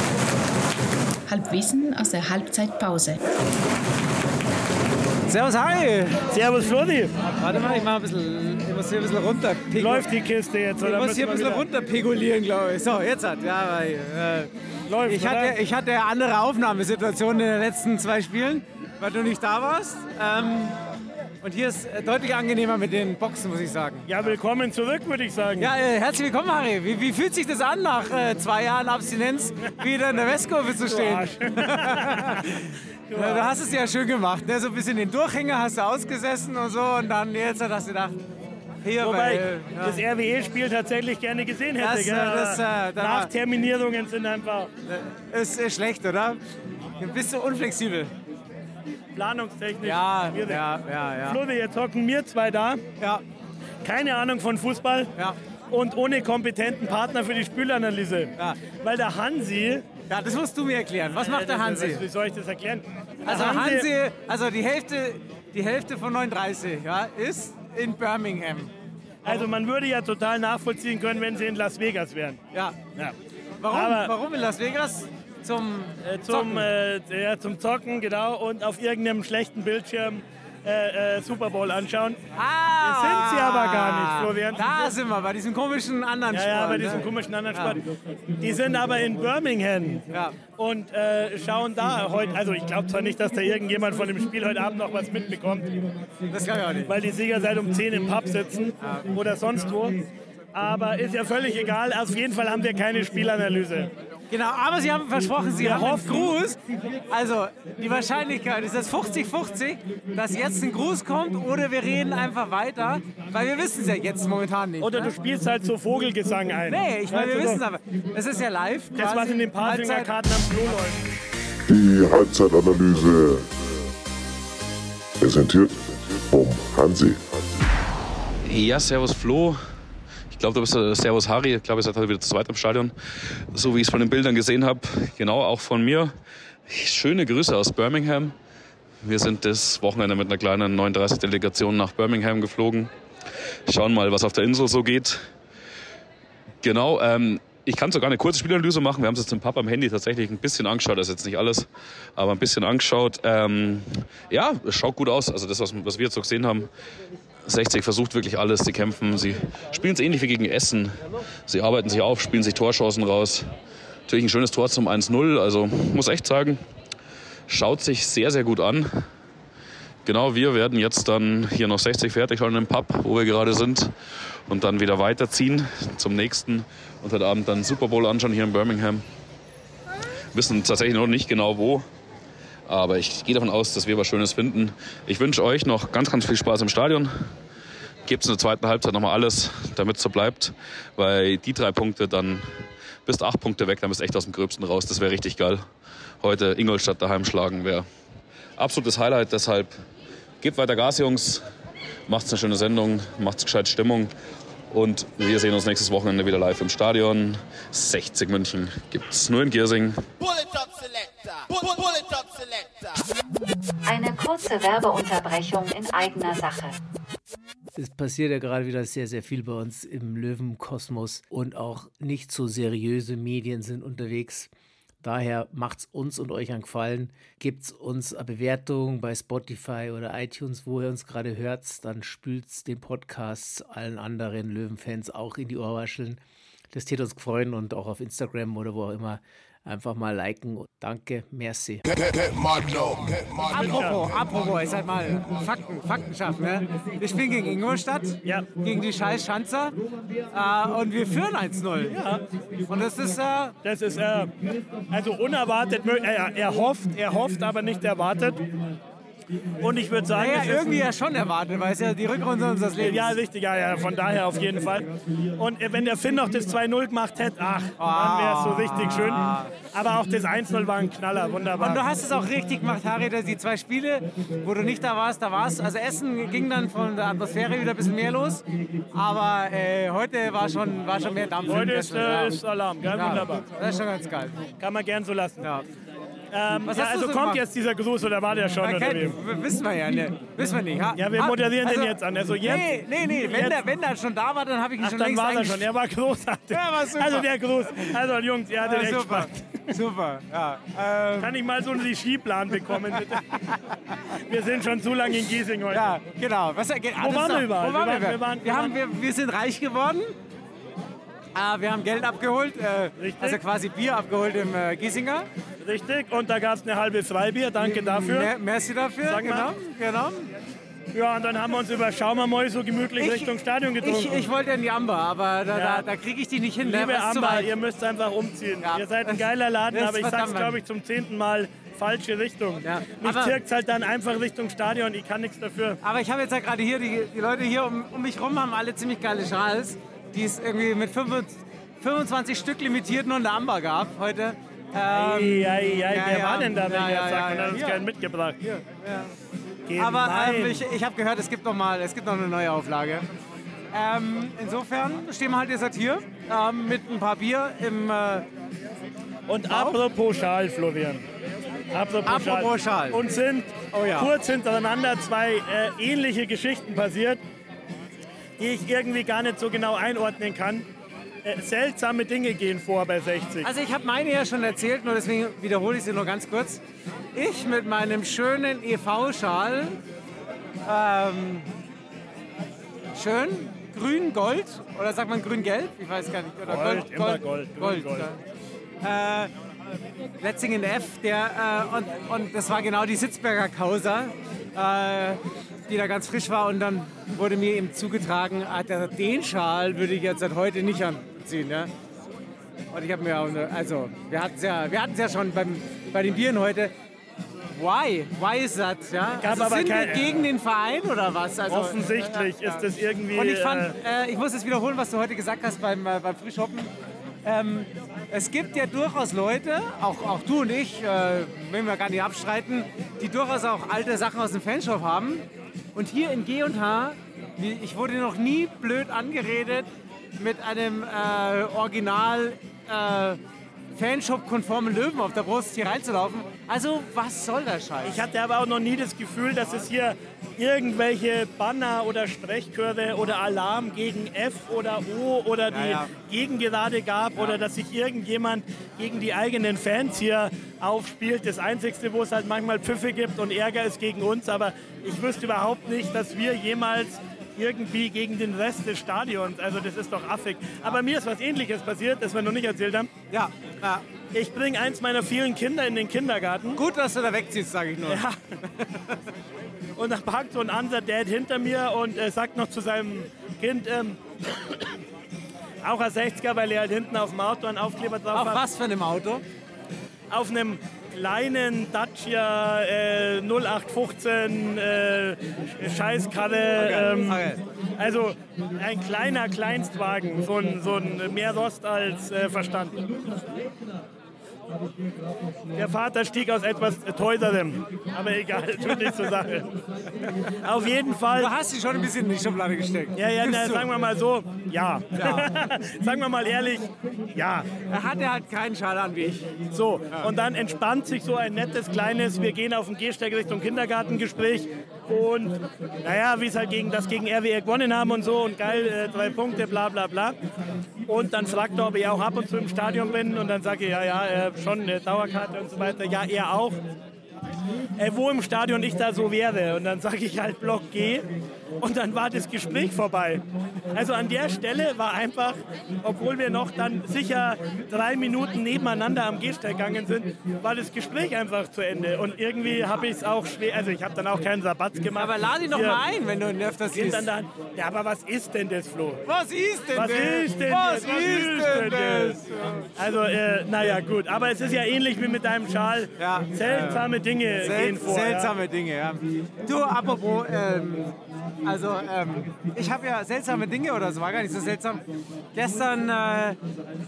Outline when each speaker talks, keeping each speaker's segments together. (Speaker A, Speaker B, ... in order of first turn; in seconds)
Speaker A: 1.3-3.2
Speaker B: 5.3-6.2, 7.4-10.1, 10.8-14.5, 15.1-20.8, 21.4-24.1, 25.6-38.2, 38.8-40.0, 41.8-43.3, 44.9-46.4, 47.0-48.1, 49.8-51.4, 60.1-62.0, 63.2-68.7, 72.5-72.8, 73.6-76.7, 82.3-87.8, 90.1-90.4, 96.3-97.0, 98.8-99.1, 104.3-115.1, 116.7-120.1, 243.4-249.8, 250.3-252.0, 252.7-253.6, 260.1-263.2, 267.8-269.5, 271.6-284.4, 285.4-285.7, 286.7-287.4, 288.6-295.7, 296.5-297.9, 298.6-301.3, 302.7-303.3, 305.7-310.1, 311.4-315.3, 317.9-320.3, 323.0-327.5, 328.6-330.6, 332.6-333.4, 335.8-347.8, 348.4-349.1, 349.8-353.1, 353.7-358.3, 359.5-359.8, 362.1-363.0, 363.7-364.1, 373.4-376.6, 377.1-379.8, 380.6-381.5, 382.9-388.2, 388.8-389.3, 390.2-401.7, 402.7-406.7, 407.5-416.7, 417.2-433.2, 433.7-438.0, 445.5-445.9, 463.1-463.9, 466.5-468.1, 468.6-468.9, 478.1-479.2, 486.6-487.4, 501.1-503.7, 504.9-505.3, 507.7-509.3, 544.9-547.1, 549.0-552.7, 556.0-566.4
Speaker C: 6.3-7.1, 9.8-11.7, 14.9-15.6, 24.1-25.7, 30.7-32.5, 33.1-33.5, 39.0-44.7, 49.2-50.6, 51.3-52.8, 53.8-55.1, 55.7-59.9, 61.1-63.9, 69.2-72.4, 73.7-74.1, 76.0-82.2, 82.8-84.8, 86.3-87.9, 88.4-90.0, 90.6-95.8, 96.9-103.9, 105.6-106.3, 114.8-117.6, 118.9-121.0, 243.5-244.0, 251.9-252.2, 253.6-254.3, 254.9-258.4, 259.6-260.9, 262.8-271.8, 281.5-283.5, 284.6-285.5, 286.3-289.2, 290.9-293.6, 294.8-299.6, 301.2-303.4, 304.2-305.9, 307.0-308.8, 313.0-313.4, 315.6-318.3, 319.0-319.5, 320.9-324.3, 325.5-325.9, 326.6-335.8, 344.9-348.4, 349.7-350.6, 359.3-361.0, 361.7-367.2, 368.4-370.7, 371.2-373.5, 386.4-388.1, 409.2-410.3, 411.5-413.8, 437.8-462.9, 464.1-466.6, 467.9-468.2, 469.8-474.6, 475.6-478.4, 480.1-487.2, 487.8-492.9, 495.6-499.5, 500.4-501.3, 503.0-507.5, 509.5-520.2, 520.9-526.6, 527.8-531.1, 531.6-545.8, 546.7-549.0, 549.7-552.2, 552.8-558.3
Speaker D: 121.7-123.5, 125.2-127.6
Speaker E: 128.4-129.6, 130.3-132.9, 133.5-136.1, 136.7-138.3, 139.0-142.9, 143.7-145.2, 146.6-156.7, 157.5-160.9, 161.5-163.5, 164.1-166.6, 167.5-168.9, 170.1-173.9, 174.5-179.0, 180.3-181.9, 182.7-187.1, 188.1-192.4, 193.1-195.6, 196.2-197.9, 198.6-199.8, 200.4-201.4, 202.1-204.1, 204.7-210.0
Speaker F: 213.9-216.8
Speaker G: 217.8-224.5, 225.0-236.2, 236.7-242.6